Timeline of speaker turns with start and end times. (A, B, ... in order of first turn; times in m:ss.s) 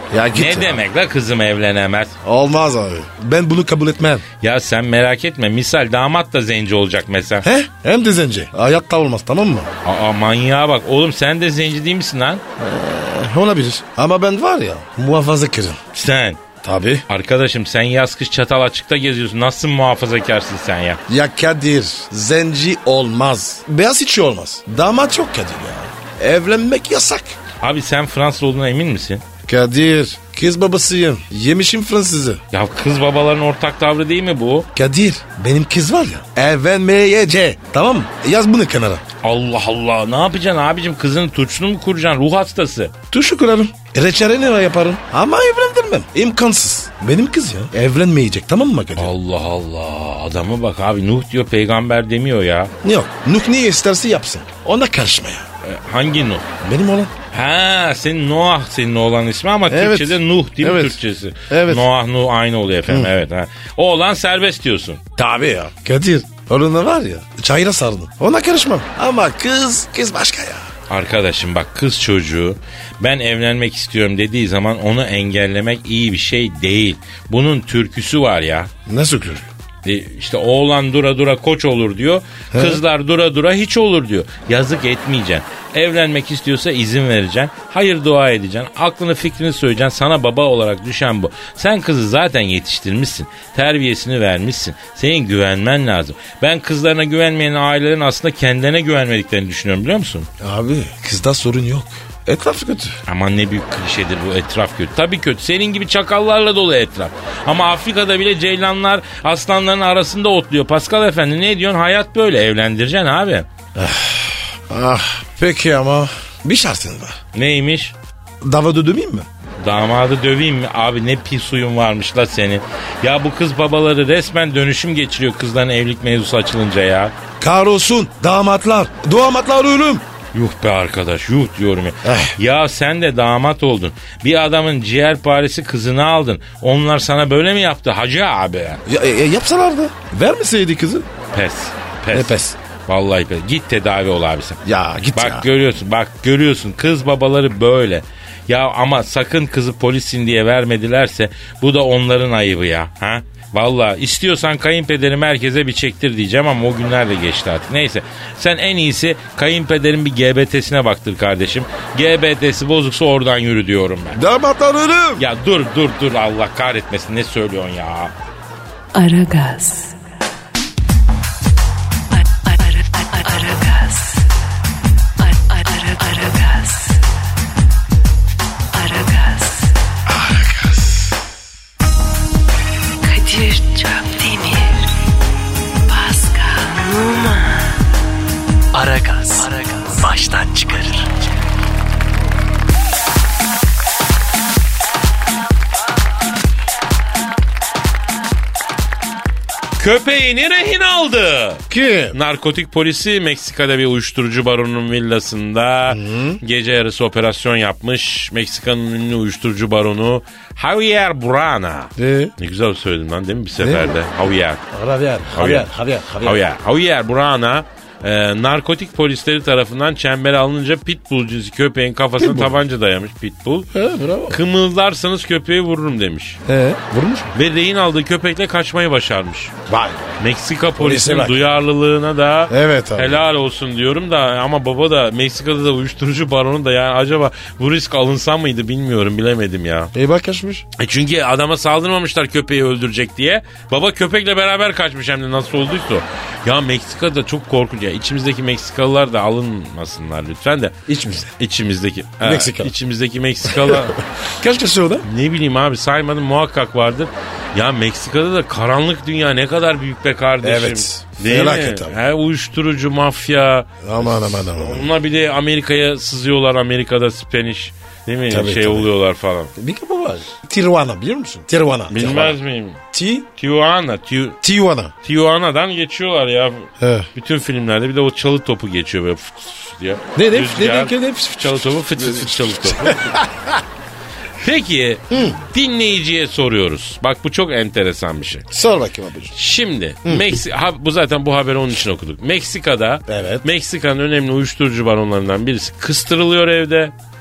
0:00.1-0:00.8 A
0:00.3-0:02.2 B
0:02.2-0:04.2 A
0:04.4-0:07.5 B
0:07.4-0:09.7 A
0:09.8-0:12.4 B
0:12.6-0:15.8 A
0:15.9-0:16.4 B
0:16.6-0:17.0 A
0:17.1-0:21.0 B
0:21.1-0:27.4 A
0:27.6-0:29.2 B
0:29.5-0:32.4 A
0:32.5-0:34.7 B
0:34.8-0:39.0 A
0:39.2-0:42.9 B
0:43.1-0:49.1 A
0:49.0-0:52.7 B
0:52.8-0:55.5 A
0:55.6-0:56.5 B
0:56.6-0:57.1 A
0:57.3-1:05.0 B
0:59.7-1:01.9 A
1:02.9-1:03.1 A
1:05.2-1:10.7 A
1:10.9-1:18.7 B
1:18.9-1:19.5 A
1:19.8-1:40.3 B
1:22.5-1:22.8 A
1:40.4-1:43.0 A
1:43.1-1:53.5 B
1:53.8-1:57.2 A
1:57.3-1:58.0 B
1:58.4-1:59.3 A
1:59.6-2:07.1 B
2:07.4-2:10.1 A
2:10.3-2:18.8 B
2:12.0-2:12.4 A
2:18.9-2:21.1 A
2:21.3-2:24.6 B
2:22.1-2:22.6 A
2:24.6-2:25.5 A
2:25.1-2:44.2 B
2:44.1-2:45.2 A
2:45.2-2:48.1 B
2:48.9-2:50.0 C
2:52.1-2:54.3 C
2:55.2-2:57.0 C
2:58.7-2:59.7 C
3:00.1-3:01.2 A
3:03.0-3:04.8 C
3:05.9-3:07.8 C
3:09.0-3:10.1 C
3:19.8-3:34.6 B
3:21.7-3:22.2 A
3:25.9-3:26.4 A
3:32.0-3:32.3 A
3:33.6-3:34.0 A
3:34.7-3:36.4 A
3:35.3-3:35.7 B
3:36.2-3:43.7 B
3:42.2-3:42.6 A
3:43.7-3:44.4 A
3:44.3-3:46.4 B
3:46.5-3:47.3 A
3:47.3-3:49.5 B
3:49.7-3:50.2 A
3:50.2-3:59.9 B
3:50.8-3:51.4 A
3:52.5-3:53.2 A
3:59.9-4:00.6 A
4:00.8-4:10.8 B
4:10.9-4:11.3 A
4:11.4-4:14.0 B
4:12.2-4:12.7 A
4:13.4-4:15.1 A
4:15.0-4:29.5 B
4:20.4-4:22.0 A
4:23.8-4:24.9 A
4:28.3-4:28.9 A
4:29.6-4:32.4 A
4:31.9-4:32.8 B
4:32.9-4:33.3 A
4:33.4-4:34.4 B
4:34.4-4:34.9 A
4:35.0-4:43.3 B
4:36.8-4:37.1 A
4:40.2-4:43.6 A
4:44.4-4:48.4 B
4:45.1-4:45.4 A
4:48.5-4:49.4 A
4:49.3-4:56.9 B
4:53.1-4:53.4 A